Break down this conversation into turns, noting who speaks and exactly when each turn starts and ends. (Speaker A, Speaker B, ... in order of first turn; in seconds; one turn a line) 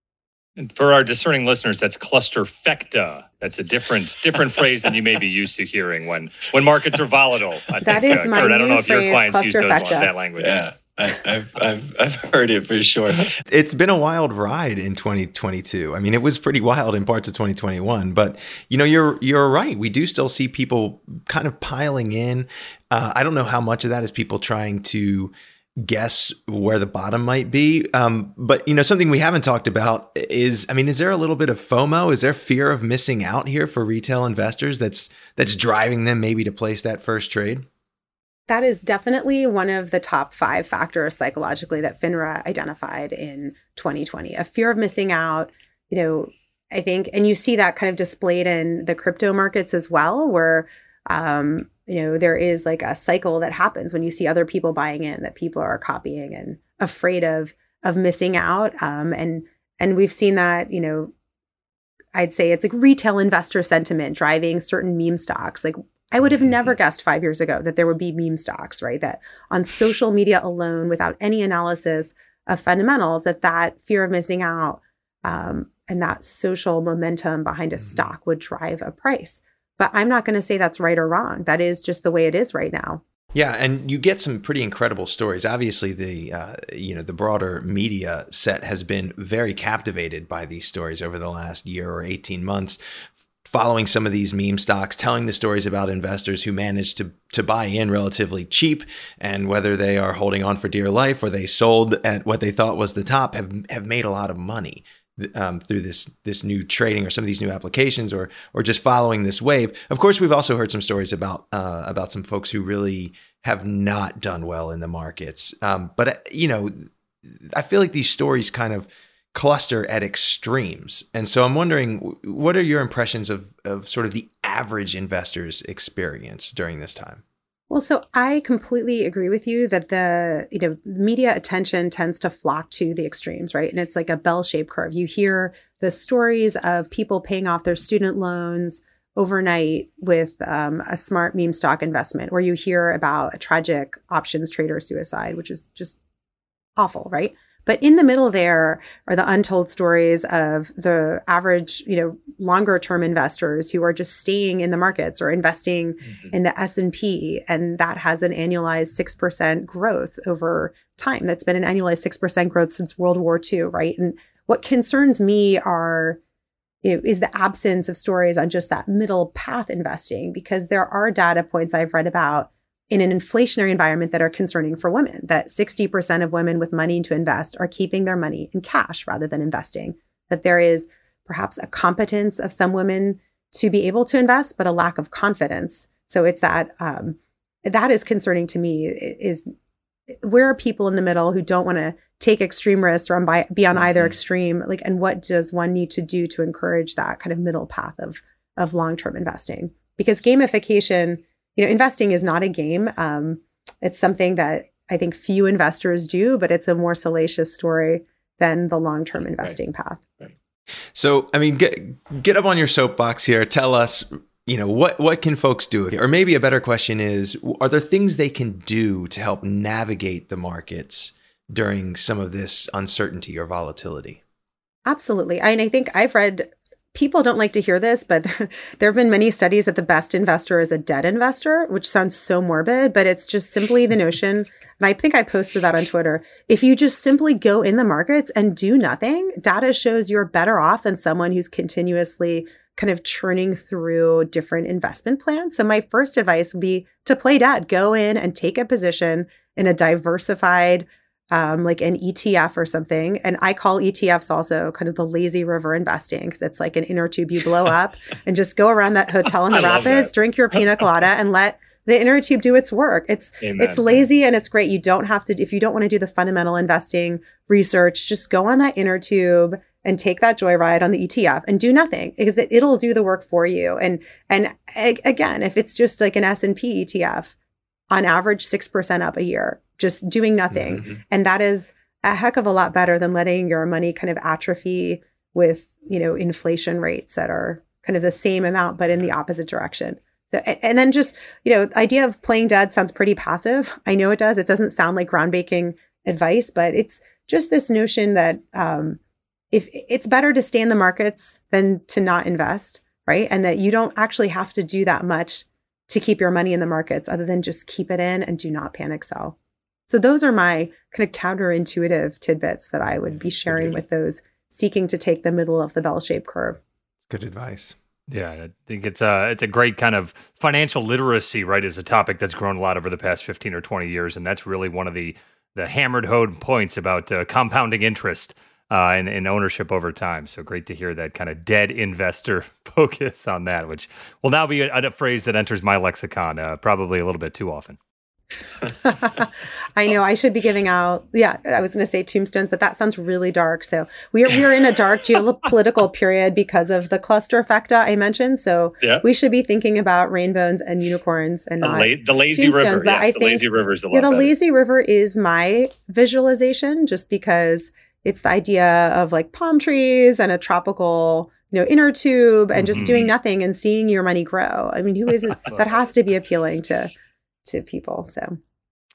Speaker A: 0.6-10.6
Speaker B: 7.8-10.1
Speaker C: 10.5-13.2
Speaker D: 13.4-37.7
Speaker B: 38.5-61.1
Speaker B: 62.1-83.0
Speaker D: 83.3-92.8
Speaker D: 93.5-127.2
Speaker B: 127.7-146.0
Speaker B: 146.8-166.2
Speaker B: 166.8-189.4
Speaker B: 190.2-210.0
Speaker D: 210.9-224.2
Speaker B: 224.9-277.4
Speaker A: 259.5-260.1
Speaker A: 263.4-264.0
Speaker B: 277.9-299.0
Speaker B: 299.5-309.4
Speaker B: 309.9-316.6
Speaker D: 317.1-317.8
Speaker A: 318.1-337.8
Speaker B: 338.6-366.9
Speaker A: 351.6-354.3
Speaker A: 362.6-363.1
Speaker B: 367.4-368.4